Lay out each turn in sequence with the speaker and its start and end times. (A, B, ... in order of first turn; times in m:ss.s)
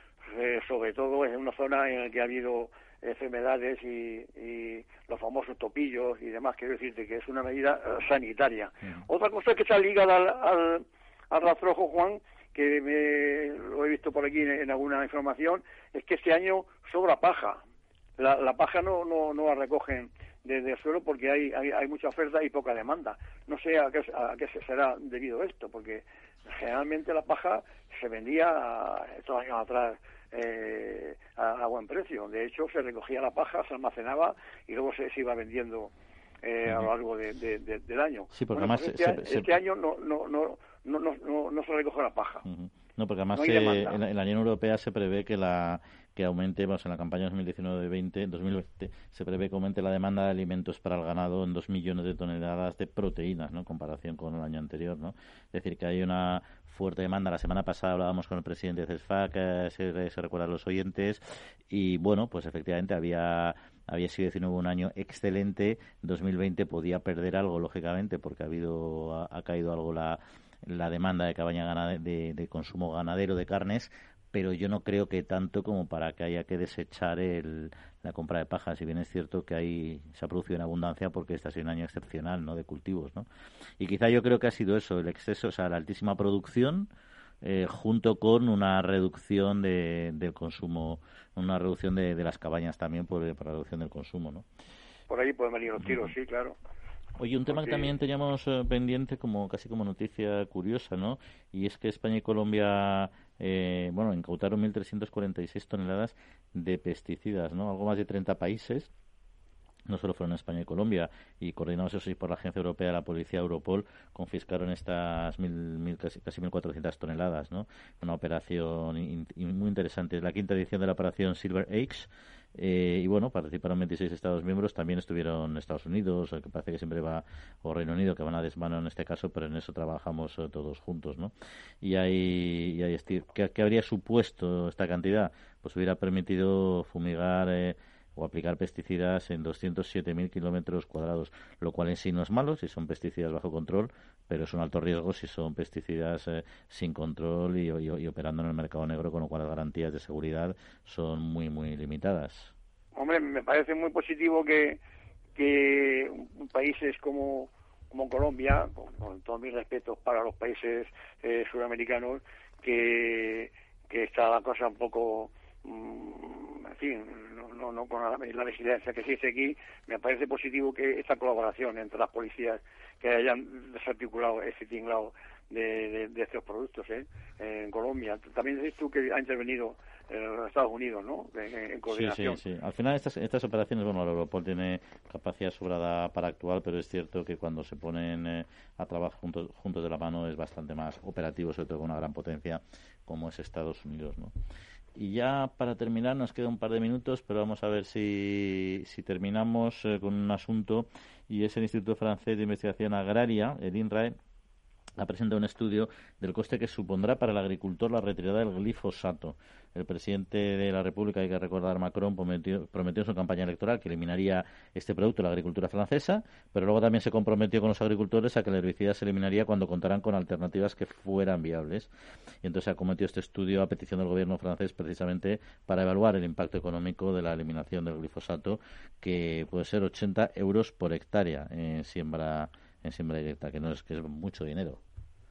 0:00.3-0:17.6 A
0:18.2-0:35.9 A
0:36.4-0:42.4 A
0:38.3-0:39.5 B
0:42.4-1:23.3 B
0:43.3-0:44.0 A
1:23.8-1:26.9 B
1:27.4-1:34.5 B
1:35.1-1:36.6 A
1:35.8-1:36.1 B
1:37.2-1:48.9 B
1:37.5-1:37.9 A
1:49.9-2:32.5 B
2:33.0-2:34.8 A
2:35.4-3:02.4 A
3:01.9-3:14.3 B
3:15.0-3:24.2 B
3:25.0-3:41.9 B
3:42.4-3:54.8 B